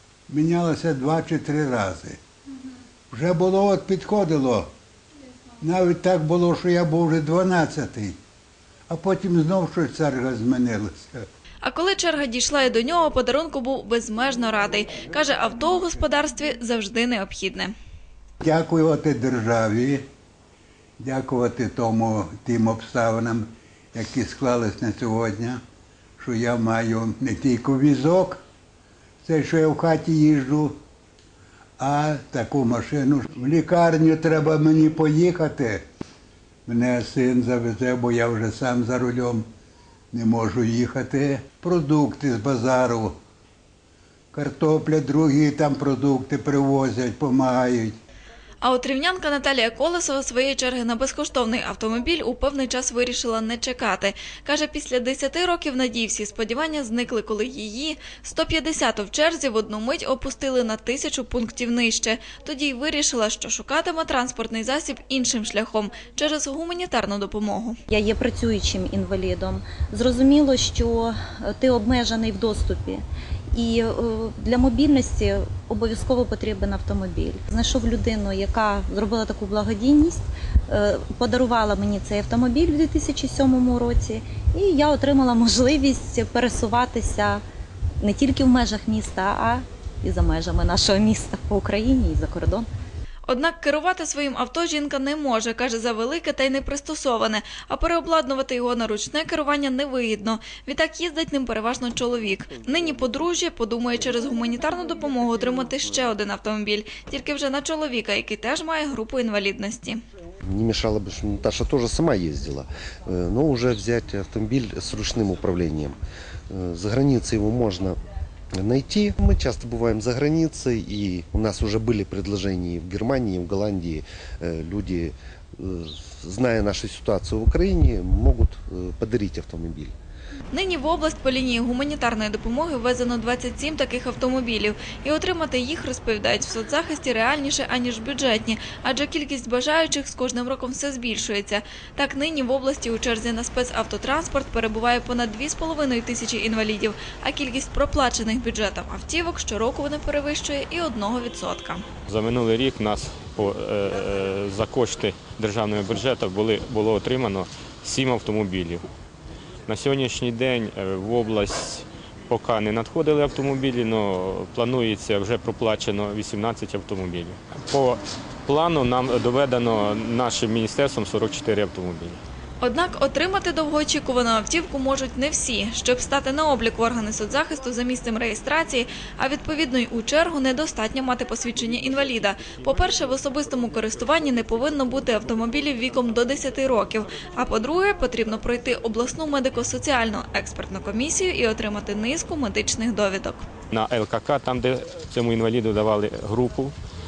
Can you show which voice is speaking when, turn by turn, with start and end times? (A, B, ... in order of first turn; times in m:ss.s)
0:00.3-0:02.2 A
0:03.1-0:04.7 A
0:05.6-0:08.2 A
0:08.9-0:11.2 A
0:11.6-0:17.7 B
0:18.4-0:20.0 A
0:21.0-0:25.6 A
0:26.2-0:28.4 A
0:29.2-0:30.8 A
0:31.8-0:35.8 A
0:36.7-0:39.4 A
0:40.1-0:43.2 A
0:44.3-0:48.0 A
0:48.6-1:07.8 B
1:07.9-1:13.0 C
1:13.5-1:27.4 C
1:28.0-1:32.7 C
1:33.3-1:50.0 B
1:50.5-1:56.0 D
1:56.5-1:58.0 D
1:58.5-2:09.9 D
2:10.5-2:31.8 B
2:32.1-2:38.8 E
2:39.7-2:52.2 E
2:52.6-3:13.5 B
3:13.7-3:16.7 E